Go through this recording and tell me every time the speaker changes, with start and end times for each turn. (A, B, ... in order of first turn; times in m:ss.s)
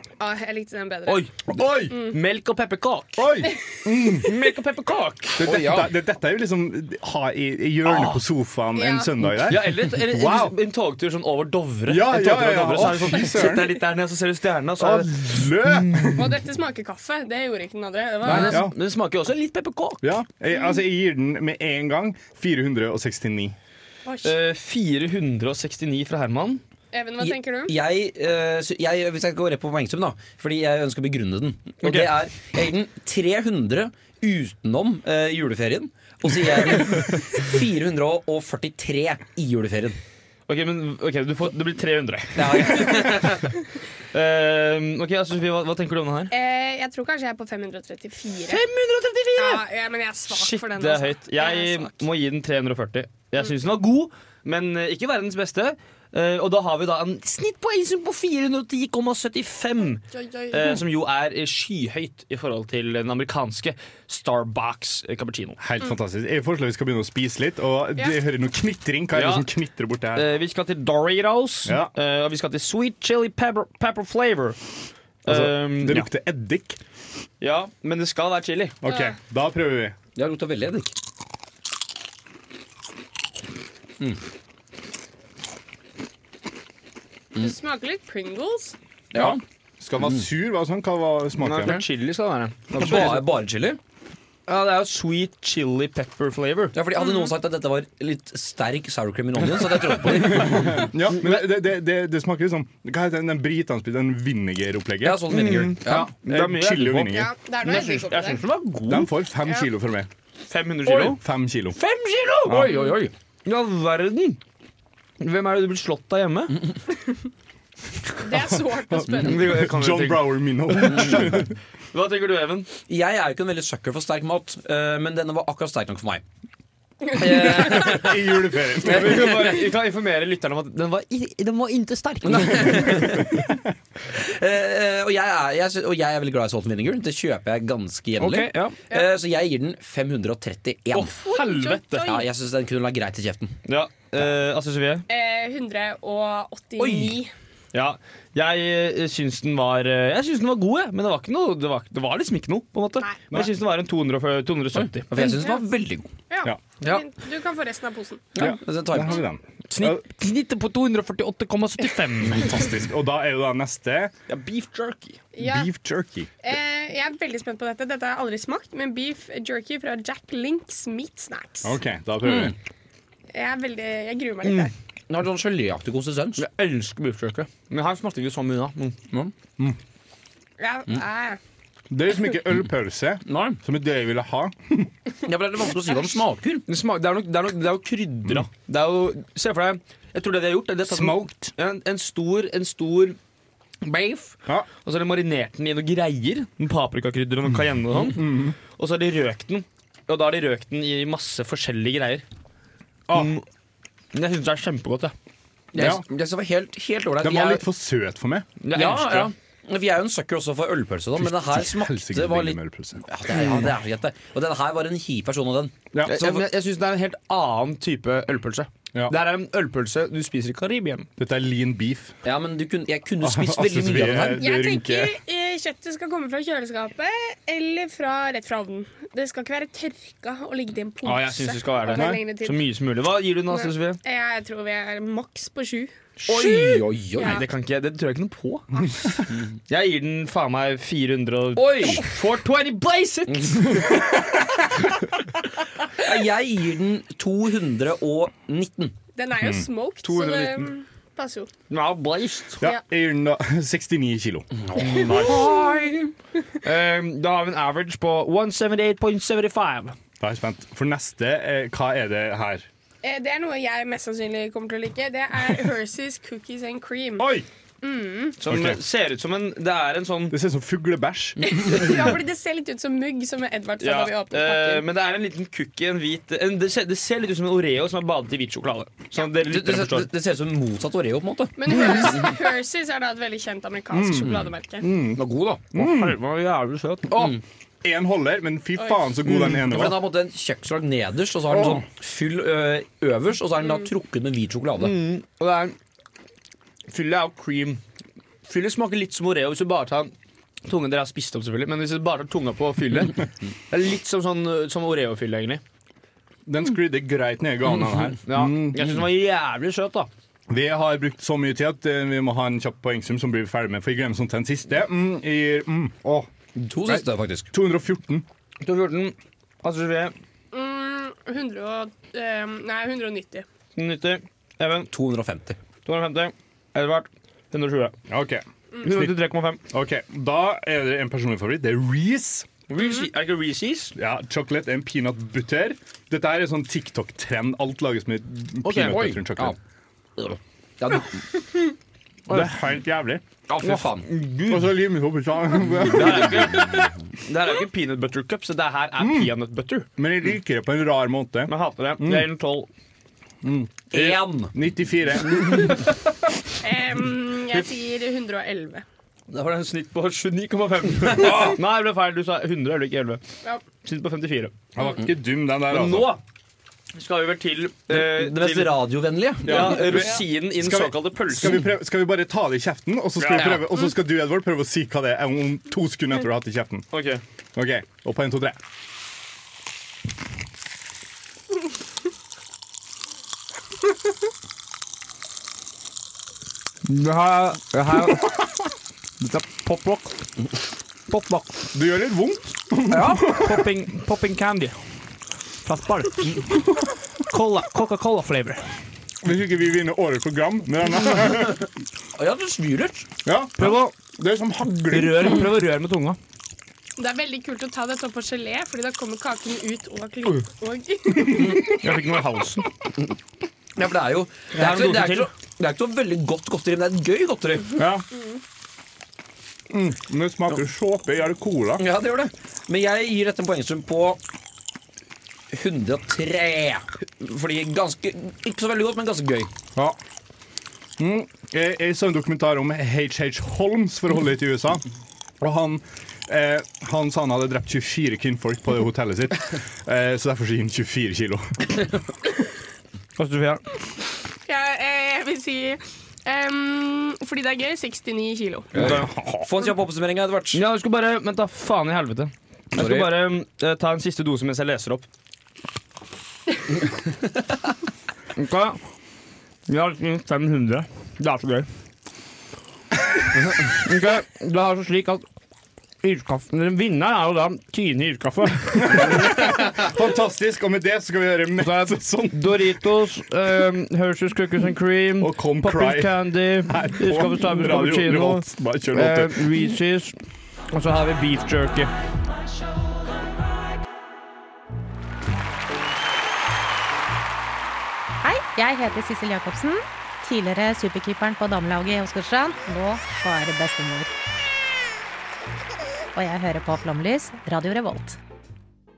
0:00.2-0:01.2 A
0:01.1-0:03.3 B
0:01.5-0:02.0 C
0:03.2-0:04.3 C
0:04.2-0:05.5 B
0:05.4-0:10.6 C
0:05.4-0:05.9 D
0:07.9-0:08.2 B
0:08.8-0:09.1 A
0:09.5-0:15.2 B
0:11.9-0:13.7 C
0:14.8-0:16.3 C
0:16.2-0:18.7 A
0:18.2-0:20.1 B
0:18.2-0:18.8 C
0:20.0-0:23.6 C
0:24.1-0:24.4 A
0:24.2-0:26.6 B
0:26.9-0:27.7 A
0:27.2-0:40.0 D
0:31.8-0:32.1 B
0:40.5-0:43.4 B
0:42.4-0:43.5 D
0:44.1-0:46.3 B
0:46.3-0:48.6 A
0:48.5-0:49.6 B
0:49.4-0:52.0 A
0:50.3-1:05.6 B
1:00.1-1:00.8 A
1:05.6-1:10.3 C
1:09.1-1:09.5 B
1:10.1-1:14.6 B
1:11.7-1:11.9 C
1:15.2-1:16.1 B
1:15.3-1:16.8 C
1:17.4-1:18.8 B
1:18.8-1:20.0 C
1:18.9-1:19.2 A
1:20.2-1:20.9 D
1:27.4-1:28.8 A
1:29.1-1:29.4 D
1:29.1-1:31.8 C
1:31.4-1:33.2 B
1:32.7-1:33.8 D
1:34.5-1:36.8 B
1:36.7-1:40.9 D
1:40.3-1:47.3 C
1:41.2-1:41.4 B
1:45.0-1:46.1 D
1:45.3-1:49.1 B
1:47.0-1:48.4 A
1:48.9-1:50.1 C
1:50.5-1:51.2 B
1:50.9-1:51.8 C
1:51.8-1:52.9 B
1:52.5-1:52.7 C
1:52.5-1:53.1 D
1:53.4-1:54.4 B
1:55.2-1:56.6 B
1:58.2-1:59.5 A
1:58.3-2:01.5 C
1:59.2-2:02.7 B
2:01.0-2:01.2 D
2:02.9-2:06.2 D
2:07.1-2:09.6 D
2:07.3-2:09.5 C
2:08.8-2:13.2 B
2:12.2-2:13.3 D
2:13.0-2:13.5 C
2:14.1-2:21.2 D
2:18.2-2:18.8 B
2:20.9-2:22.1 B
2:21.2-2:22.2 A
2:22.0-2:23.6 D
2:23.7-2:25.0 B
2:25.1-2:27.3 A
2:26.8-2:27.2 D
2:27.7-2:35.4 B
2:34.8-2:36.1 D
2:36.3-2:38.3 A
2:38.4-2:39.2 D
2:38.4-2:40.0 C
2:39.7-2:42.6 B
2:42.3-2:44.1 C
2:44.3-2:45.2 B
2:45.3-2:45.7 A
2:45.4-2:46.3 C
2:46.4-2:51.8 A
2:51.6-2:52.6 C
2:52.2-2:52.5 D
2:53.3-2:54.7 A
2:55.1-2:56.4 D
2:56.4-2:59.0 B
3:00.6-3:01.4 A
3:01.9-3:04.9 C
3:03.3-3:03.6 D
3:05.2-3:06.6 D
3:06.7-3:13.2 B
3:10.9-3:11.5 C
3:13.8-3:22.2 B
3:18.0-3:18.6 C
3:23.1-3:23.3 C
3:23.1-3:23.4 B
3:24.1-3:25.1 B
3:25.7-3:27.6 D
3:25.8-3:26.0 C
3:27.2-3:28.5 C
3:28.6-3:29.3 B
3:28.7-3:36.4 D
3:31.2-3:33.0 C
3:36.0-3:41.1 B
3:41.2-3:42.2 C
3:42.2-3:44.5 D
3:43.2-3:45.2 C
3:44.2-3:52.6 A
3:51.0-3:54.0 B
3:52.0-3:52.2 C
3:53.5-3:55.9 A
3:56.2-3:59.2 B
3:56.3-3:57.4 D
3:57.2-3:57.4 A
3:59.3-3:59.6 D
3:59.7-4:03.9 B
4:01.6-4:02.1 D
4:03.3-4:04.2 D
4:06.0-4:09.0 D
4:09.2-4:11.5 A
4:09.4-4:09.6 C
4:10.0-4:10.7 B
4:11.7-4:12.6 B
4:12.6-4:14.5 C
4:14.6-4:15.8 D
4:14.8-4:15.9 B
4:16.6-4:20.0 B
4:20.2-4:22.7 C
4:23.0-4:27.3 A
4:27.2-4:27.5 C
4:27.8-4:28.4 A
4:28.4-4:30.4 B
4:28.5-4:28.8 C
4:30.3-4:31.9 C
4:31.4-4:34.8 A
4:33.8-4:40.1 B
4:39.4-4:42.3 D
4:41.6-4:44.9 A
4:43.9-4:46.2 C
4:45.2-4:45.7 D
4:45.7-4:47.4 B
4:47.1-4:47.4 D
4:47.8-4:50.0 C
4:49.3-4:55.0 D
4:51.5-4:51.8 C
4:54.8-4:55.8 B
4:56.9-4:57.8 B
4:58.5-5:00.1 B
5:00.6-5:05.6 B
5:06.5-5:09.0 C
5:08.3-5:10.1 B
5:10.5-5:16.3 C
5:16.6-5:17.5 D
5:16.9-5:18.3 C
5:18.6-5:20.1 B
5:20.5-5:23.5 A
5:23.8-5:24.9 B
5:24.9-5:25.6 D
5:25.9-5:28.0 B
5:28.1-5:29.2 C
5:28.8-5:29.6 B
5:29.7-5:32.5 C
5:32.7-5:33.9 B
5:32.8-5:33.0 A
5:34.0-5:39.6 C
5:38.6-5:39.0 B
5:38.8-5:39.6 D
5:40.2-5:41.2 D
5:42.3-5:43.2 C
5:43.5-5:44.1 D
5:43.6-5:44.8 B
5:44.5-5:46.7 C
5:45.9-5:49.9 B
5:49.0-5:49.3 C
5:50.0-5:52.3 C
5:51.5-5:52.7 B
5:53.4-5:53.9 C
5:53.9-5:54.5 D
5:54.5-5:55.8 C
5:56.6-5:58.8 A
5:59.3-6:03.2 B
6:01.1-6:01.6 C
6:03.8-6:04.5 B
6:04.8-6:06.2 C
6:05.7-6:06.2 B
6:06.9-6:08.8 B
6:07.9-6:10.1 D
6:09.4-6:11.6 B
6:09.5-6:16.9 C
6:13.2-6:13.8 B
6:16.9-6:17.2 B
6:17.6-6:18.6 C
6:26.9-6:28.5 B
6:29.2-6:30.2 B
6:31.1-6:31.5 B
6:31.7-6:33.6 C
6:32.9-6:34.9 B
6:35.6-6:36.7 B
6:37.3-6:38.8 B
6:39.2-6:41.6 C
6:42.2-6:43.1 D
6:43.2-6:45.4 C
6:43.6-6:43.9 B
6:44.9-6:46.2 B
6:47.0-6:51.8 A
6:51.2-6:51.8 C
6:51.8-6:52.6 B
6:53.8-6:57.8 D
6:54.5-6:55.3 B
6:57.8-6:58.0 C
6:59.7-7:01.8 C
7:01.8-7:04.2 D
7:05.5-7:09.5 D
7:11.0-7:14.8 C
7:15.4-7:21.5 C
7:23.2-7:23.6 B
7:24.4-7:28.7 A
7:28.8-7:29.1 B
7:28.8-7:30.6 D
7:28.8-7:29.5 C
7:30.5-7:35.0 B
7:32.8-7:33.1 D
7:38.4-7:38.8 B
7:39.7-7:41.7 B
7:43.6-7:45.2 B
7:46.0-7:49.8 B
7:48.8-7:52.8 C
7:51.6-8:00.2 B
7:55.2-7:59.5 C
8:00.7-8:01.9 B
8:08.2-8:14.1 E
8:16.2-8:18.2 E